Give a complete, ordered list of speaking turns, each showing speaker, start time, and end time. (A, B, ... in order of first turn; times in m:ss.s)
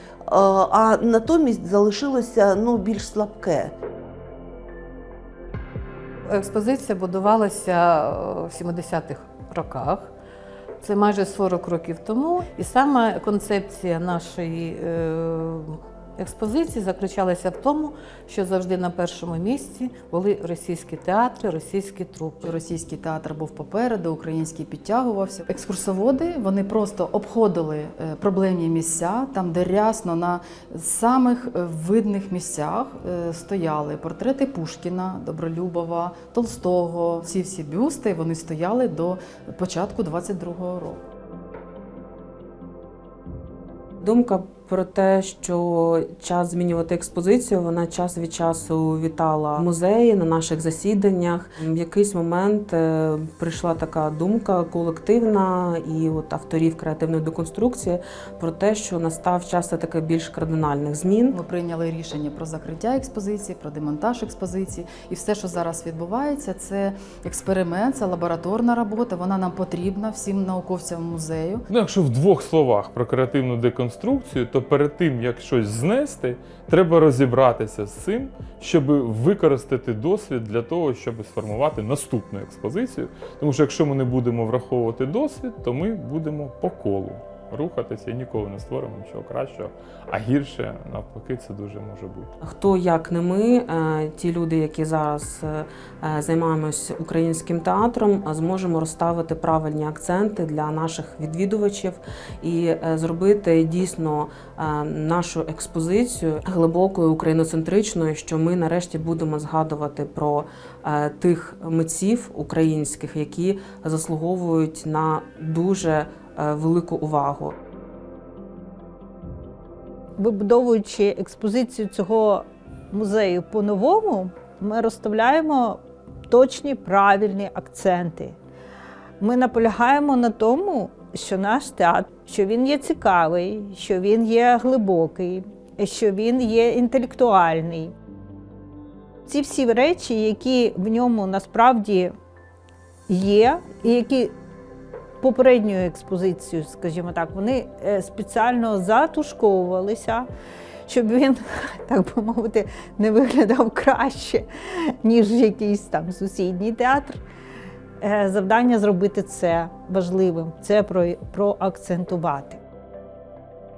0:00.3-0:03.7 A
0:06.3-0:10.1 B
0:10.8-0:22.5 B
0:22.4-0:41.0 C
0:44.0-1:01.4 D
1:01.3-1:11.7 C
1:11.7-1:32.3 E
1:32.4-1:57.6 D
2:00.2-2:08.4 F
2:09.2-2:18.0 F
2:19.3-2:22.2 F
2:23.1-2:24.4 F
2:25.2-2:30.3 F
2:30.9-2:37.2 F
2:38.0-2:42.6 F